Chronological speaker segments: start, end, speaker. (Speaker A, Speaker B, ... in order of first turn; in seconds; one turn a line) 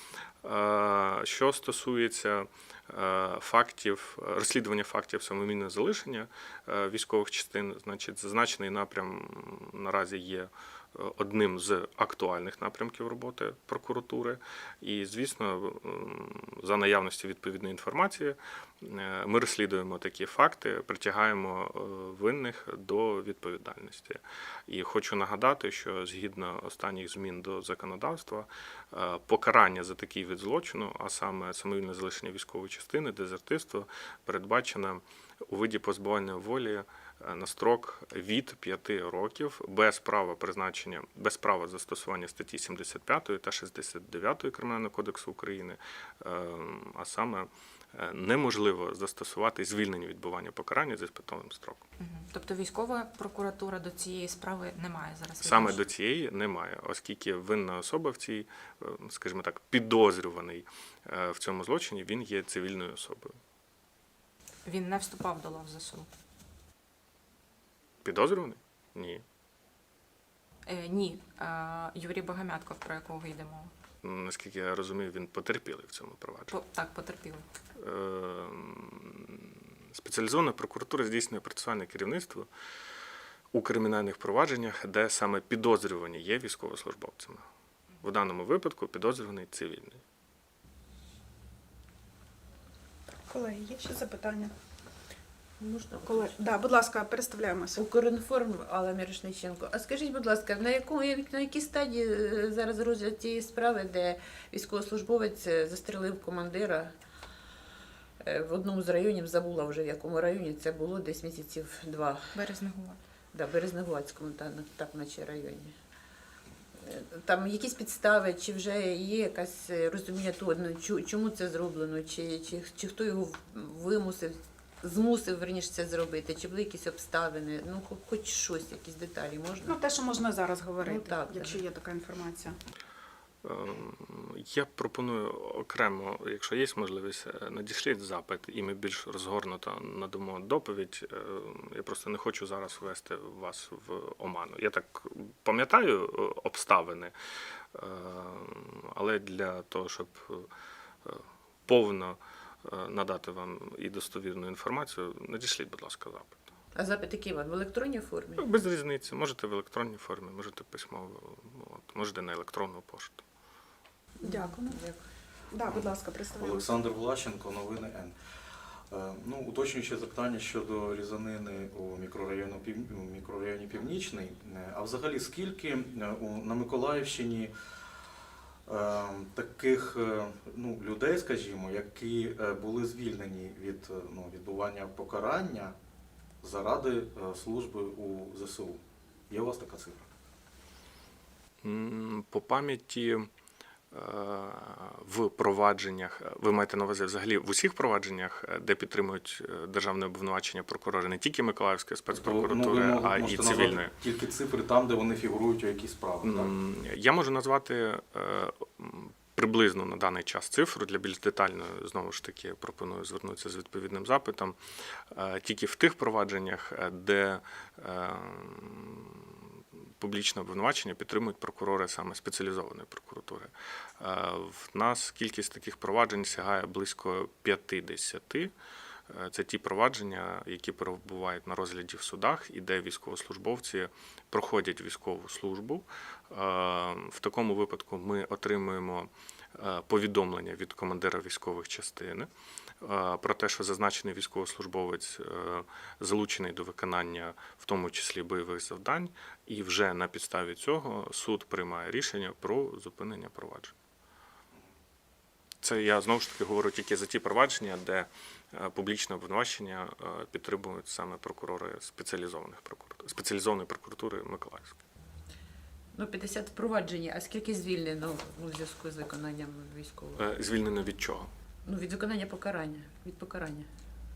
Speaker A: 0.4-51.8
Speaker B: 52.0-55.8
Speaker A: 55.4-63.4
Speaker B: 64.6-66.1
Speaker A: 68.0-69.2
Speaker B: 70.7-73.7
Speaker A: 74.0-76.5
Speaker B: 76.5-77.4
Speaker A: 77.8-82.5
Speaker A: 83.5-87.4
Speaker A: 88.0-90.0
Speaker C: 93.3-94.5
Speaker D: 95.6-96.5
Speaker C: 96.0-97.8
Speaker D: 97.7-106.9
Speaker D: 108.2-112.4
Speaker B: 112.3-113.0
Speaker D: 113.3-115.7
Speaker D: 116.8-129.8
Speaker C: 129.7-132.6
Speaker D: 130.8-131.6
Speaker A: 133.4-147.1
Speaker A: 147.7-150.5
Speaker A: 151.0-156.4
Speaker D: 156.7-158.4
Speaker A: 158.4-163.2
Speaker C: 164.2-164.8
Speaker D: 164.2-165.0
Speaker C: 165.5-166.7
Speaker E: 165.7-168.1
Speaker E: 168.9-177.5
Speaker E: 178.7-185.7
Speaker E: 186.4-190.1
Speaker A: 191.6-193.3
Speaker A: 193.9-203.9
Speaker E: 202.1-206.5
Speaker A: 206.2-214.6
Speaker A: 215.1-219.4
Speaker A: 220.0-228.5
Speaker A: 229.1-242.3
Speaker A: 242.8-253.7
Speaker A: 255.6-264.8
Speaker D: 265.9-270.2
Speaker A: 270.1-271.3
Speaker D: 271.6-273.7